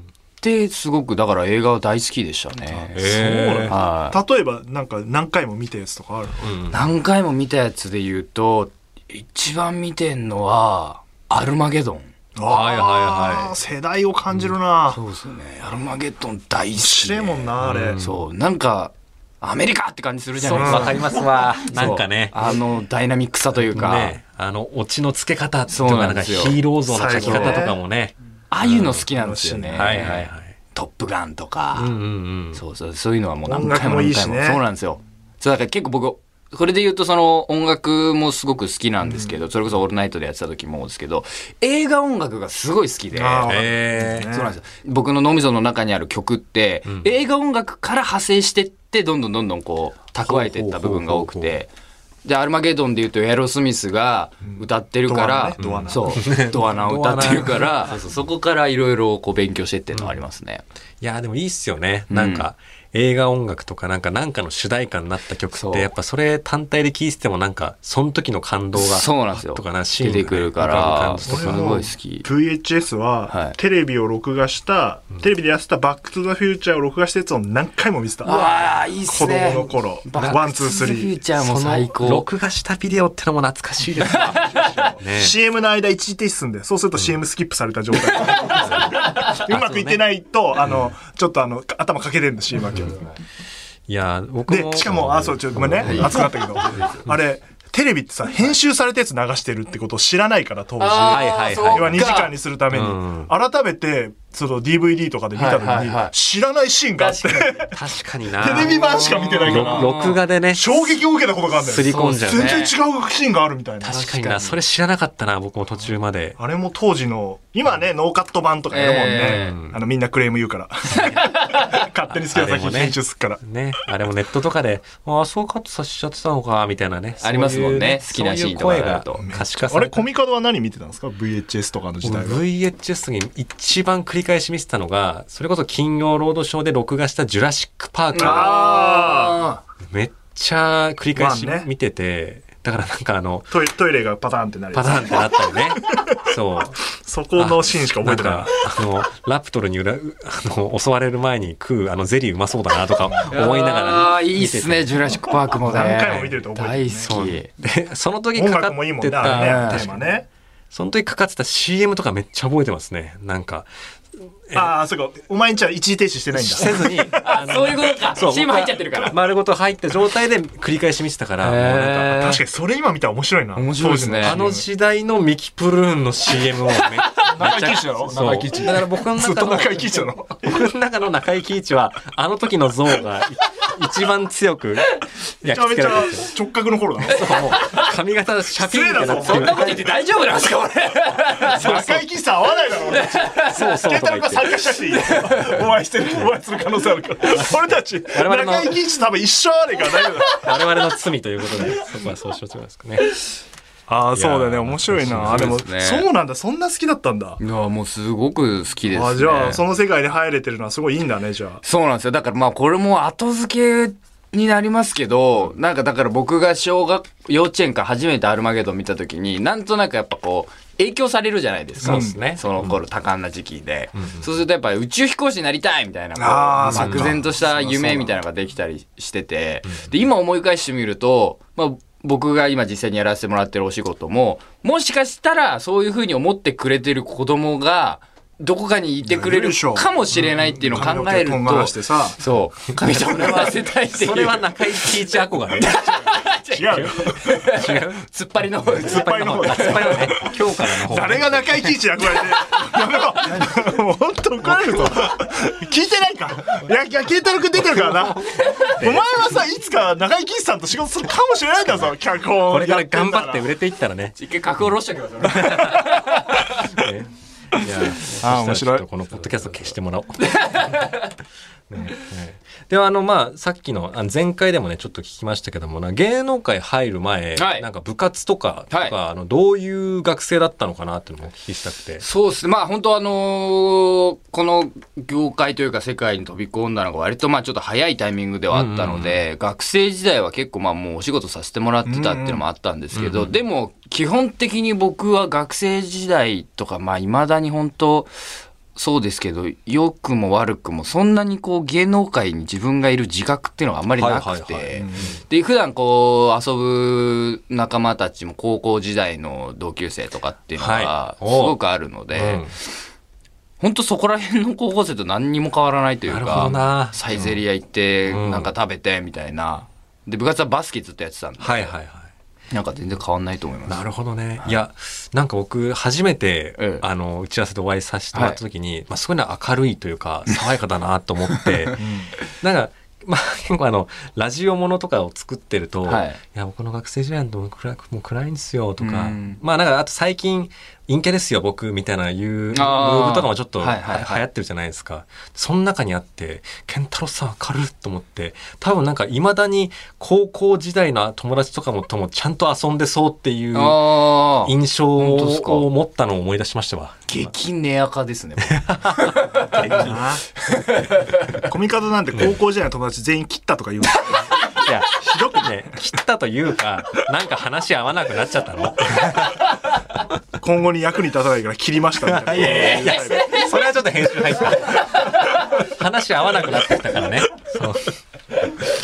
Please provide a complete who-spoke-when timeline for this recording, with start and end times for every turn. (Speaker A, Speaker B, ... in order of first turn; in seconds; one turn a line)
Speaker A: 0.4-3.1
Speaker B: 2.7-6.7
Speaker C: 2.9-3.8
Speaker A: 3.7-4.2
Speaker C: 6.4-6.8
Speaker A: 6.7-12.1
Speaker B: 12.3-15.0
Speaker C: 12.4-13.5
Speaker A: 14.9-21.1
Speaker B: 16.8-18.0
Speaker C: 17.6-18.2
Speaker C: 20.4-22.5
Speaker B: 20.5-21.0
Speaker A: 21.7-24.2
Speaker C: 23.6-29.0
Speaker A: 25.7-26.6
Speaker B: 26.9-27.8
Speaker A: 27.1-27.6
Speaker A: 28.5-31.9
Speaker B: 29.1-30.2
Speaker C: 29.7-30.5
Speaker C: 31.8-32.6
Speaker A: 32.5-43.5
Speaker B: 33.5-34.6
Speaker B: 43.1-44.5
Speaker C: 43.5-44.3
Speaker A: 44.2-51.7
Speaker C: 50.2-51.5
Speaker A: 52.2-60.6
Speaker B: 54.5-56.3
Speaker C: 55.6-58.0
Speaker C: 61.0-71.8
Speaker A: 62.1-62.5
Speaker A: 65.5-65.9
Speaker A: 68.8-72.2
Speaker B: 71.3-81.2
Speaker A: 73.3-73.5
Speaker A: 78.2-82.2
Speaker C: 81.4-85.3
Speaker A: 84.1-84.7
Speaker B: 84.7-93.0
Speaker C: 88.8-90.0
Speaker C: 93.9-96.2
Speaker B: 94.5-107.8
Speaker A: 95.8-97.0
Speaker A: 100.8-102.3
Speaker C: 101.1-102.1
Speaker C: 102.7-103.3
Speaker A: 105.3-106.1
Speaker A: 107.0-107.7
Speaker C: 107.7-108.8
Speaker B: 108.4-114.5
Speaker A: 108.4-110.2
Speaker C: 109.4-110.8
Speaker C: 111.6-112.7
Speaker A: 111.8-112.7
Speaker C: 113.8-116.4
Speaker B: 116.4-123.4
Speaker A: 118.7-119.6
Speaker C: 119.2-119.8
Speaker A: 120.9-121.9
Speaker C: 122.1-130.0
Speaker A: 127.2-129.3
Speaker B: 129.2-132.4
Speaker C: 132.0-138.5
Speaker A: 138.1-139.6
Speaker B: 138.1-139.5
Speaker C: 139.9-143.5
Speaker B: 141.1-141.7
Speaker B: 143.5-146.3
Speaker C: 144.7-146.8
Speaker B: 146.8-148.8
Speaker C: 147.4-154.9
Speaker A: 153.3-157.5
Speaker B: 155.5-157.1
Speaker C: 157.0-160.1
Speaker B: 158.3-160.3
Speaker A: 159.2-159.9
Speaker C: 160.7-163.7
Speaker B: 164.5-167.3
Speaker C: 166.3-172.2
Speaker A: 167.2-169.3
Speaker A: 171.4-172.4
Speaker B: 172.2-174.7
Speaker A: 173.6-174.4
Speaker C: 174.2-186.3
Speaker A: 176.7-177.4
Speaker B: 177.3-180.5
Speaker B: 185.4-187.3
Speaker C: 187.1-189.8
Speaker A: 187.2-187.9
Speaker B: 188.6-189.7
Speaker A: 189.2-192.0
Speaker B: 191.4-200.8
Speaker C: 191.6-192.0
Speaker A: 192.7-193.7
Speaker C: 193.5-194.6
Speaker A: 194.8-195.5
Speaker C: 195.4-195.7
Speaker C: 197.4-198.8
Speaker C: 200.2-203.2
Speaker B: 203.9-207.4
Speaker C: 204.1-205.6
Speaker A: 205.1-206.1
Speaker A: 207.4-209.6
Speaker B: 208.9-211.6
Speaker A: 211.6-245.0
Speaker C: 221.8-222.7
Speaker B: 221.8-222.2
Speaker B: 226.2-228.2
Speaker C: 226.6-227.2
Speaker B: 239.1-242.2
Speaker C: 243.0-245.8
Speaker A: 245.6-250.3
Speaker B: 245.8-247.4
Speaker C: 246.7-248.1
Speaker C: 248.7-251.7
Speaker B: 248.8-263.4
Speaker C: 257.6-259.0
Speaker A: 258.3-258.8
Speaker C: 262.5-264.2
Speaker A: 264.2-266.8
Speaker C: 265.2-265.9
Speaker C: 266.6-270.8
Speaker B: 267.6-268.8
Speaker A: 269.1-271.1
Speaker C: 271.7-282.0
Speaker A: 277.4-277.6
Speaker A: 282.0-298.1
Speaker C: 288.5-289.2
Speaker B: 291.9-292.4
Speaker C: 292.9-293.3
Speaker A: 298.7-312.6
Speaker C: 304.0-305.1
Speaker B: 304.8-305.1
Speaker C: 310.6-311.6
Speaker C: 312.1-312.5
Speaker A: 313.6-321.7
Speaker C: 316.1-317.4
Speaker C: 318.1-318.5
Speaker C: 321.4-322.1
Speaker A: 322.5-323.9
Speaker C: 323.7-357.3
Speaker A: 326.6-326.8
Speaker A: 331.3-331.8
Speaker B: 331.8-332.1
Speaker A: 335.9-336.2
Speaker A: 338.8-339.4
Speaker A: 342.5-344.2
Speaker A: 353.5-355.6
Speaker A: 357.1-359.9
Speaker C: 358.4-360.1
Speaker B: 359.7-360.2
Speaker A: 360.4-361.4
Speaker B: 361.4-365.7
Speaker C: 364.5-369.4
Speaker B: 370.4-373.3
Speaker C: 372.1-378.0
Speaker A: 372.3-373.5
Speaker A: 374.5-375.5